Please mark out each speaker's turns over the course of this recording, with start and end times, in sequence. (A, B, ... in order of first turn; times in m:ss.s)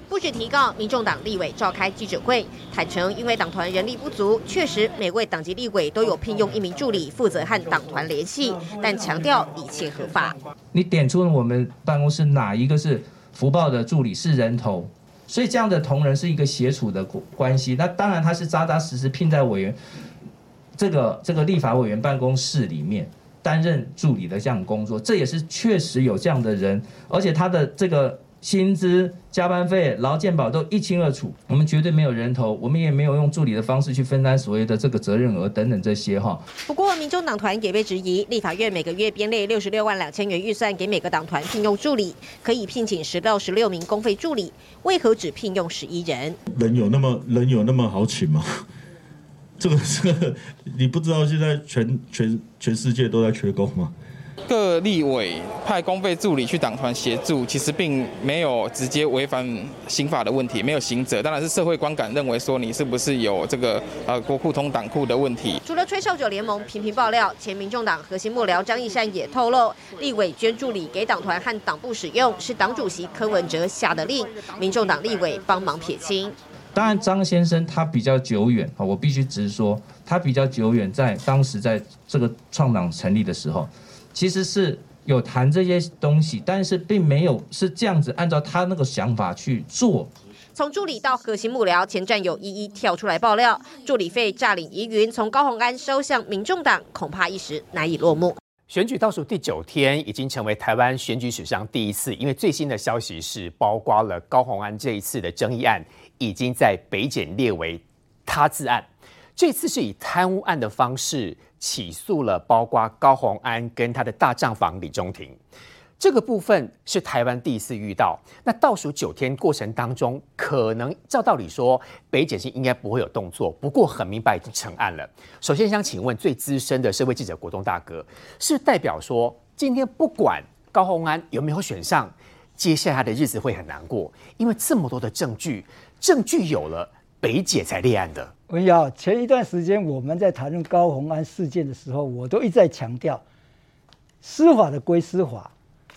0:00.1-0:10.4 A
0:10.7-0:19.8 B
0:20.8-0:36.4 B
0:36.6-0:46.4 A
0:46.5-0:48.6 C
0:49.6-0:53.9 C
0:54.5-1:05.6 D
1:05.6-1:16.3 A
1:16.7-1:30.1 B
1:30.5-1:38.4 A
1:38.7-1:55.4 E
1:56.0-2:18.3 E
2:18.5-2:23.2 F
2:24.2-2:25.5 F